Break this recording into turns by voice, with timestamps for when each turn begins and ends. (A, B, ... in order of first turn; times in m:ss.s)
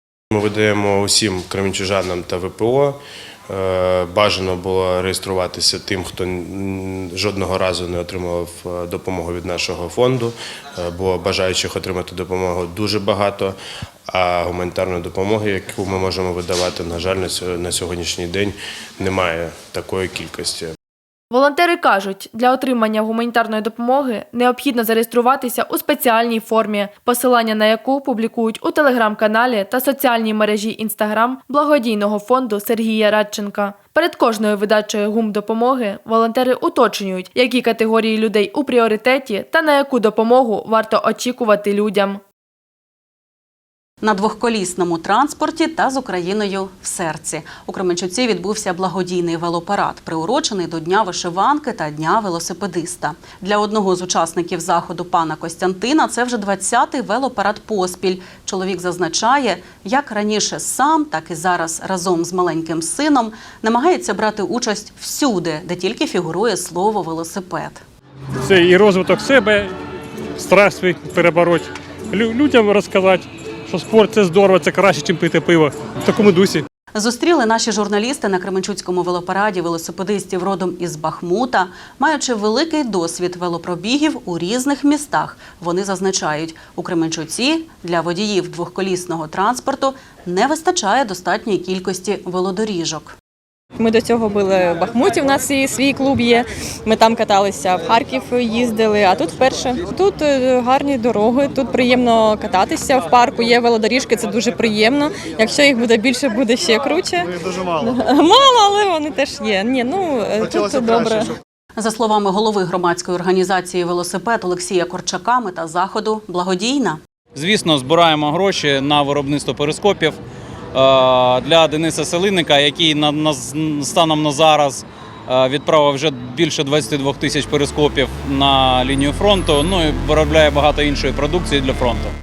0:00.3-0:13.6 A
0:14.1-0:20.8 A
0:21.3-0:42.2 B
0:44.0-1:07.8 C
1:08.4-1:09.7 D
1:10.4-1:16.6 D
1:17.0-1:33.2 C
1:33.8-1:51.3 E
1:51.8-1:57.0 C
1:57.4-2:00.2 F
2:00.7-2:12.1 F